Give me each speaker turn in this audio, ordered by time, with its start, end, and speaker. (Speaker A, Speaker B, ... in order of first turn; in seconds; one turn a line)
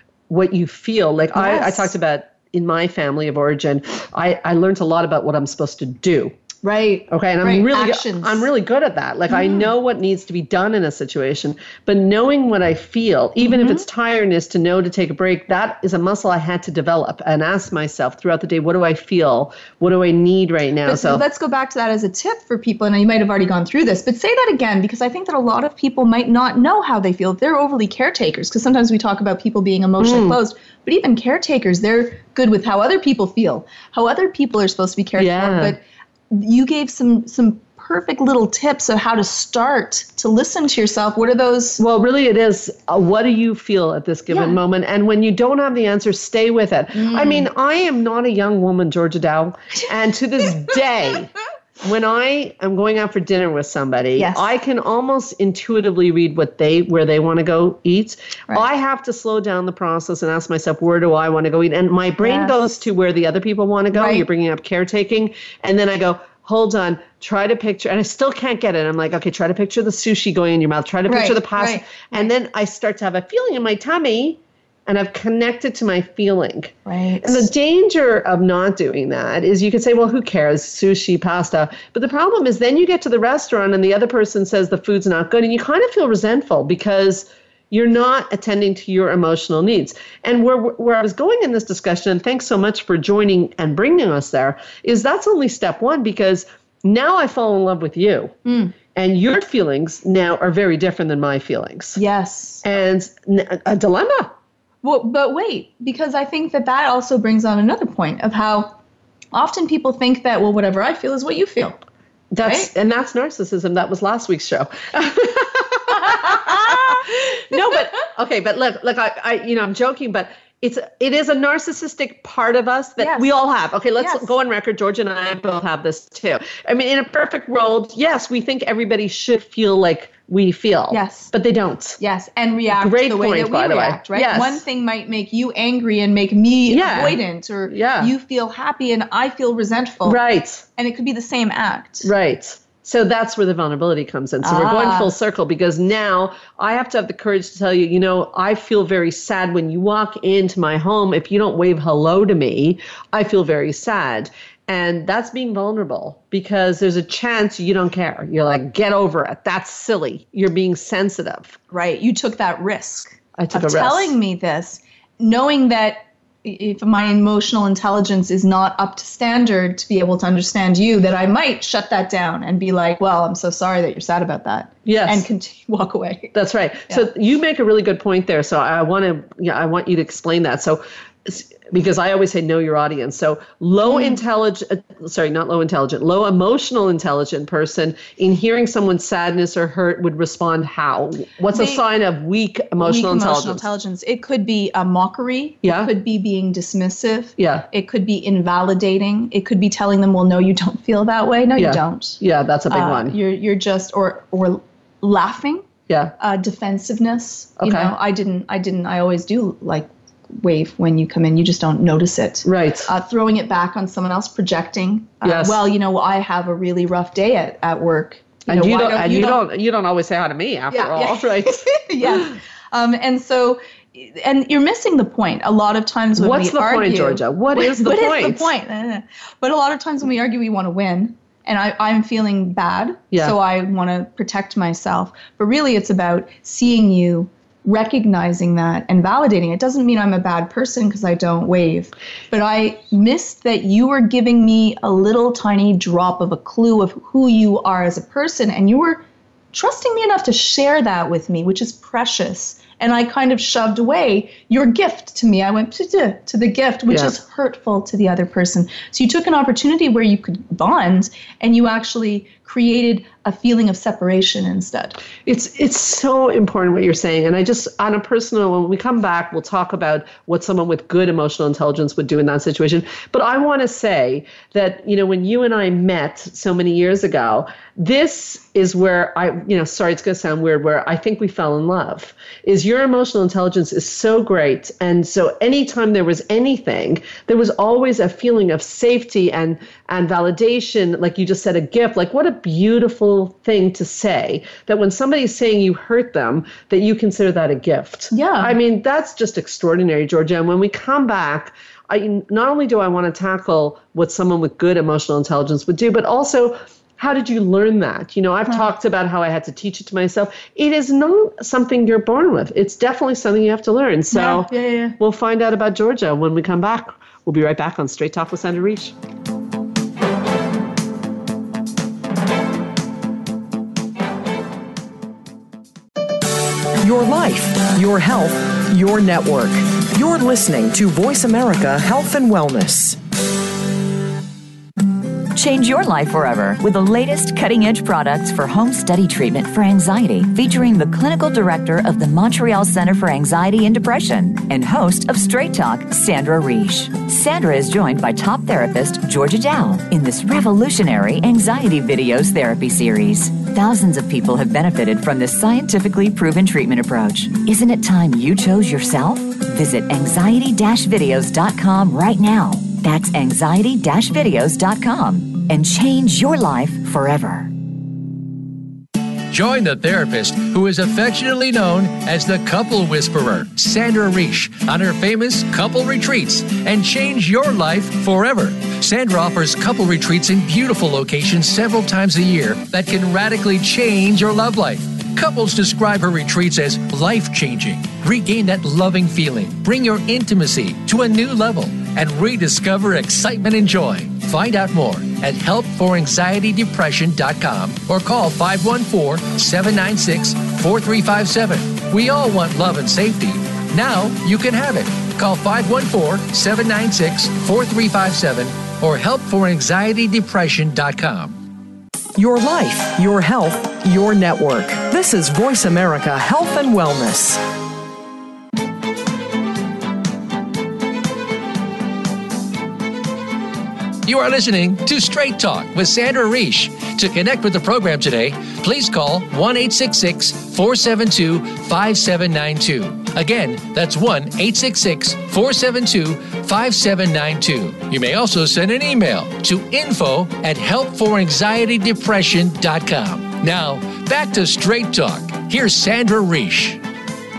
Speaker A: 0.3-6.3
Speaker B: 1.4-1.9
Speaker B: 6.6-8.5
Speaker A: 7.1-21.2
Speaker B: 9.3-9.7
Speaker B: 13.4-13.8
Speaker B: 20.9-41.8
Speaker A: 30.0-30.4
Speaker A: 35.2-35.8
Speaker A: 41.8-98.3
Speaker B: 44.3-44.6
Speaker B: 47.0-47.5
Speaker B: 54.2-54.5
Speaker B: 62.2-62.6
Speaker B: 63.9-64.2
Speaker B: 71.1-72.3
Speaker B: 76.9-77.5
Speaker B: 98.5-98.8
Speaker A: 98.9-102.0
Speaker B: 102.0-102.6
Speaker A: 102.6-104.3
Speaker B: 104.8-108.8
Speaker B: 109.3-111.8
Speaker A: 112.3-132.0
Speaker B: 112.4-112.7
Speaker B: 116.1-117.0
Speaker B: 123.0-123.3
Speaker B: 124.0-124.3
Speaker B: 130.9-131.3
Speaker B: 132.0-140.2
Speaker A: 132.7-134.6
Speaker A: 136.7-138.1
Speaker A: 140.1-140.7
Speaker B: 140.8-142.1
Speaker A: 142.0-161.6
Speaker B: 144.4-145.1
Speaker B: 161.7-176.3
Speaker A: 163.4-164.2
Speaker A: 174.9-175.2
Speaker A: 176.3-193.7
Speaker B: 183.8-184.2
Speaker B: 191.5-191.8
Speaker B: 192.8-202.2
Speaker A: 195.6-195.9
Speaker A: 197.4-197.7
Speaker A: 201.6-203.2
Speaker B: 202.7-205.7
Speaker A: 205.9-206.1
Speaker B: 206.2-219.4
Speaker A: 207.6-207.9
Speaker A: 212.4-212.9
Speaker A: 215.2-215.6
Speaker A: 218.5-222.2
Speaker B: 220.7-265.0
Speaker A: 226.2-228.5
Speaker A: 265.3-318.9
Speaker B: 298.1-298.6
Speaker B: 314.1-315.0
Speaker C: 326.8-333.0
Speaker D: 335.4-367.5
Speaker E: 369.3-411.4
Speaker C: 412.2-417.4
Speaker E: 424.1-446.8